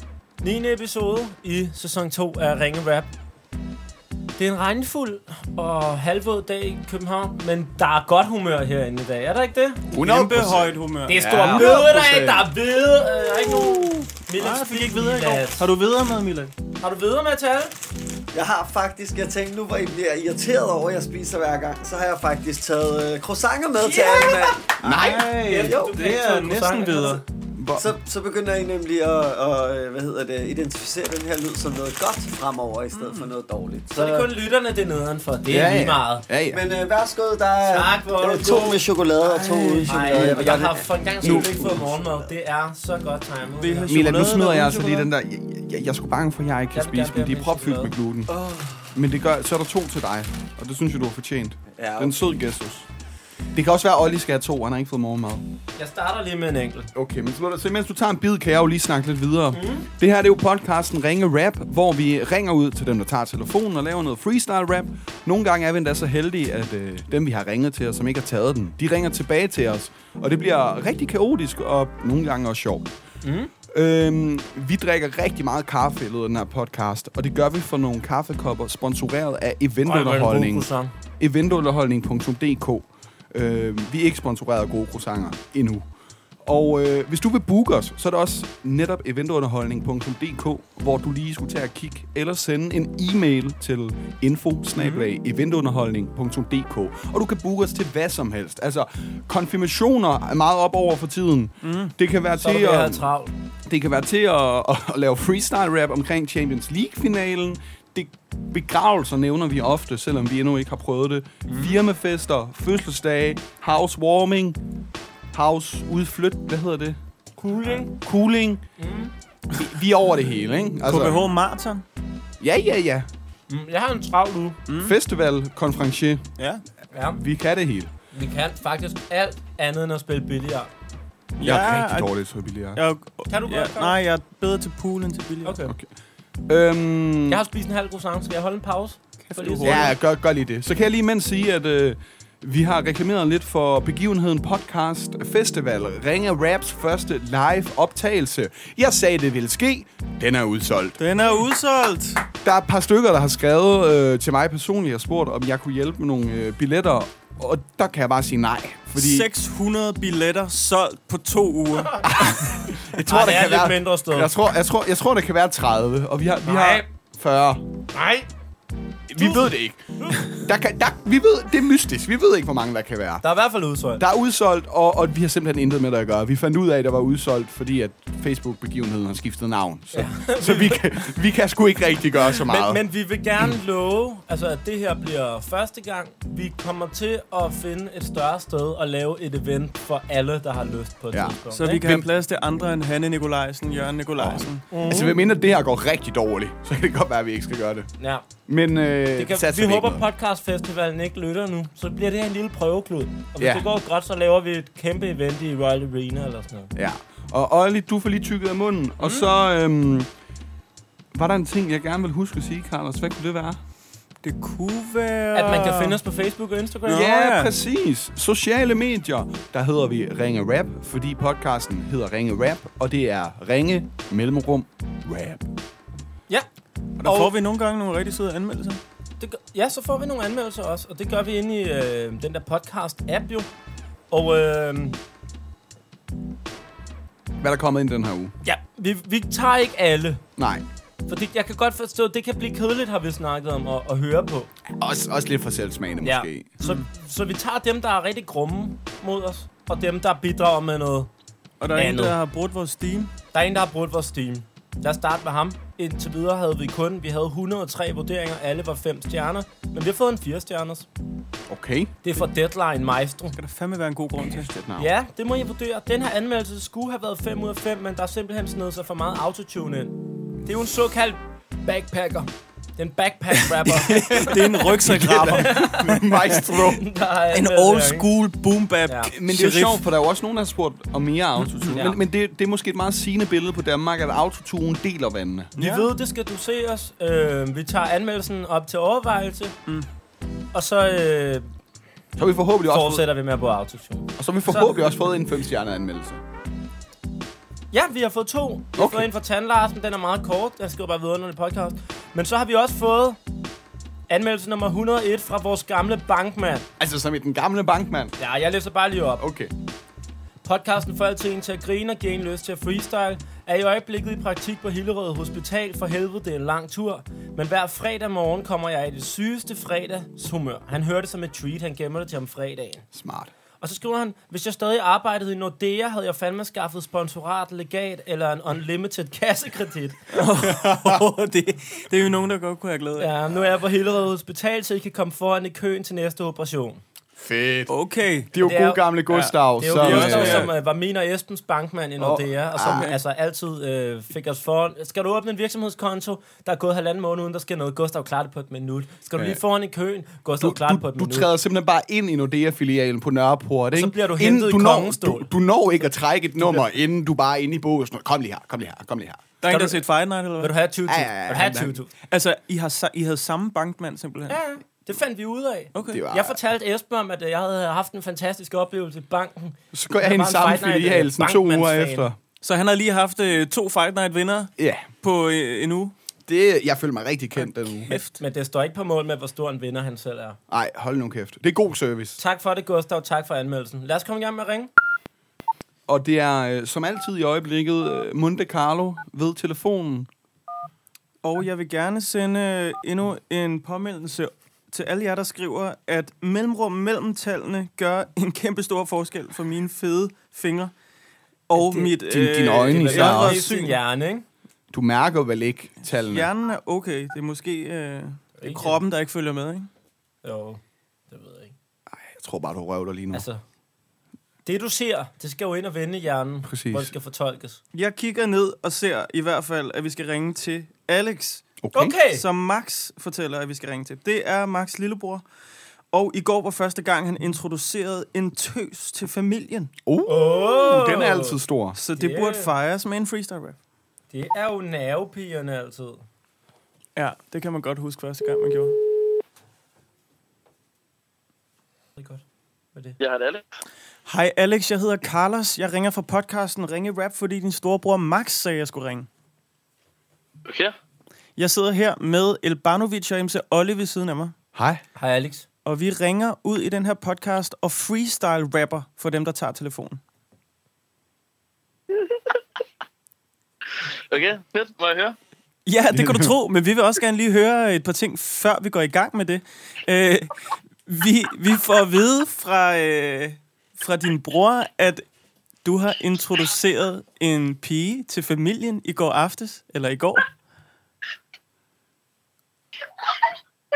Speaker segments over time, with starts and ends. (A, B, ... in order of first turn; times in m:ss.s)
0:00.4-0:03.1 A
0:04.4-0:09.9 A
0:09.9-0:12.5 B
0:10.0-0:11.7 C
0:11.0-0:15.7 A
0:13.6-0:13.9 B
0:14.4-0:16.5 C
0:16.8-0:17.7 A
0:18.3-0:26.0 D
0:23.8-0:24.5 A
0:24.8-0:25.4 B
0:24.9-0:27.2 C
0:25.4-0:27.2 A
0:27.5-0:27.9 B
0:27.8-0:34.3 D
0:32.9-0:33.3 C
0:33.9-0:36.2 A
0:35.5-0:36.6 B
0:36.4-0:42.3 D
0:37.6-0:44.0 A
0:39.4-0:40.5 C
0:43.6-0:45.1 C
0:43.9-0:48.3 B
0:46.7-0:47.9 A
0:48.3-0:48.9 D
0:48.9-0:52.9 B
0:51.7-0:52.2 D
0:53.5-0:55.4 B
0:55.8-0:56.9 A
0:56.9-1:12.9 B
0:59.5-0:59.9 A
1:13.2-1:13.5 A
1:13.7-1:20.7 B
1:19.8-1:20.9 A
1:21.2-1:25.8 B
1:26.4-1:43.1 B
1:34.8-1:35.1 C
1:41.6-1:41.9 C
1:42.4-1:43.3 A
1:43.6-1:54.6 B
1:51.5-1:51.8 C
1:55.3-1:57.0 B
1:57.4-1:57.9 A
1:57.8-1:58.6 B
1:58.8-1:59.1 A
1:59.6-2:01.2 B
2:00.8-2:01.8 C
2:02.4-2:03.1 B
2:03.5-2:04.6 A
2:04.7-2:05.0 C
2:04.8-2:06.2 B
2:06.4-2:06.6 C
2:06.9-2:07.2 A
2:07.2-2:07.9 B
2:08.1-2:10.7 A
2:11.4-2:12.1 C
2:11.4-2:12.8 B
2:12.7-2:15.6 C
2:13.3-2:14.0 A
2:15.4-2:15.7 A
2:16.5-2:17.4 B
2:17.3-2:19.9 A
2:19.2-2:19.9 C
2:19.6-2:31.0 B
2:31.0-2:32.2 C
2:32.4-2:39.3 B
2:38.9-2:42.1 C
2:42.0-2:47.6 B
2:43.0-2:44.3 A
2:46.4-2:46.8 A
2:47.9-2:48.3 A
2:49.1-2:53.2 B
2:49.2-2:50.3 A
2:53.2-2:54.0 A
2:54.0-3:02.8 B
2:59.9-3:00.8 A
3:02.3-3:11.8 A
3:11.1-3:12.1 B
3:11.5-3:15.0 C
3:14.2-3:17.9 B
3:14.7-3:15.1 A
3:18.0-3:18.2 A
3:18.5-3:20.0 B
3:19.2-3:26.7 A
3:23.4-3:23.7 B
3:26.7-3:30.1 B
3:29.0-3:29.3 A
3:31.1-3:33.6 B
3:34.2-3:36.0 C
3:35.3-3:37.0 A
3:36.9-3:37.5 C
3:36.9-3:45.5 B
3:47.0-3:48.8 C
3:47.0-3:47.3 A
3:49.2-3:53.5 A
3:54.1-3:55.0 A
3:57.4-3:58.3 B
3:58.4-4:00.2 A
4:00.4-4:00.6 B
4:01.1-4:04.5 A
4:04.7-4:06.5 B
4:06.0-4:11.1 A
4:06.6-4:06.8 C
4:11.6-4:13.1 C
4:11.7-4:12.2 A
4:13.3-4:20.9 A
4:21.5-4:21.9 B
4:22.0-4:23.4 A
4:23.4-4:24.5 C
4:24.2-4:24.9 B
4:24.8-4:34.4 A
4:33.6-4:35.7 C
4:34.8-4:36.8 B
4:35.3-4:36.0 A
4:36.8-4:38.1 A
4:37.3-4:39.8 C
4:38.9-4:39.1 A
4:39.1-4:45.5 B
4:41.4-4:41.8 C
4:41.7-4:42.0 A
4:45.6-4:45.9 C
4:45.6-4:49.5 A
4:50.5-4:51.5 A
4:52.2-4:53.1 B
4:52.7-4:54.8 A
4:54.2-4:56.2 B
4:57.7-5:03.2 A
4:58.8-4:59.1 B
5:04.1-5:06.7 A
5:06.8-5:08.2 B
5:08.2-5:09.2 A
5:09.2-5:09.5 B
5:10.4-5:22.8 A
5:22.9-5:23.3 B
5:23.6-5:30.5 A
5:30.1-5:33.1 C
5:33.0-5:36.8 A
5:37.2-5:37.7 B
5:37.7-5:38.3 C
5:38.3-5:40.5 B
5:38.4-5:38.8 A
5:39.1-5:40.5 C
5:39.6-5:51.3 A
5:42.0-5:43.0 B
5:50.4-5:59.3 B
5:53.7-5:55.3 A
5:56.4-5:56.7 A
5:59.4-6:00.5 C
5:59.5-5:59.8 A
6:00.4-6:01.9 A
6:00.9-6:01.8 B
6:02.1-6:04.4 C
6:04.3-6:12.1 A
6:05.7-6:06.0 C
6:05.9-6:06.4 B
6:09.7-6:12.2 B
6:12.4-6:15.9 C
6:14.6-6:14.9 B
6:16.3-6:17.9 B
6:17.8-6:18.2 C
6:17.9-6:20.4 A
6:20.5-6:22.2 B
6:22.2-6:24.7 A
6:25.9-6:30.1 B
6:31.2-6:40.7 C
6:41.5-6:43.8 C
6:41.6-6:41.9 A
6:42.0-6:43.4 B
6:42.7-6:44.2 A
6:44.7-6:46.3 B
6:45.9-6:49.7 C
6:48.4-6:48.8 A
6:50.2-6:51.5 A
6:51.9-6:53.2 B
6:53.1-6:53.4 A
6:54.4-6:57.6 A
6:56.4-6:56.9 B
6:57.7-7:01.5 C
7:01.6-7:01.9 B
7:01.7-7:02.2 A
7:02.1-7:05.2 C
7:05.9-7:09.7 C
7:09.8-7:11.8 B
7:10.1-7:11.4 A
7:11.7-7:13.5 C
7:12.0-7:12.5 A
7:14.1-7:16.0 A
7:17.0-7:18.8 C
7:22.0-7:22.2 A
7:23.0-7:23.4 E
7:24.0-7:29.1 C
7:30.4-7:30.7 E
7:31.4-7:34.3 C
7:34.5-7:34.8 B
7:35.0-7:35.4 A
7:35.6-7:40.0 C
7:41.9-7:42.2 E
7:44.1-7:45.2 E
7:45.6-7:55.0 C
7:45.9-7:46.3 B
7:55.6-8:00.3 C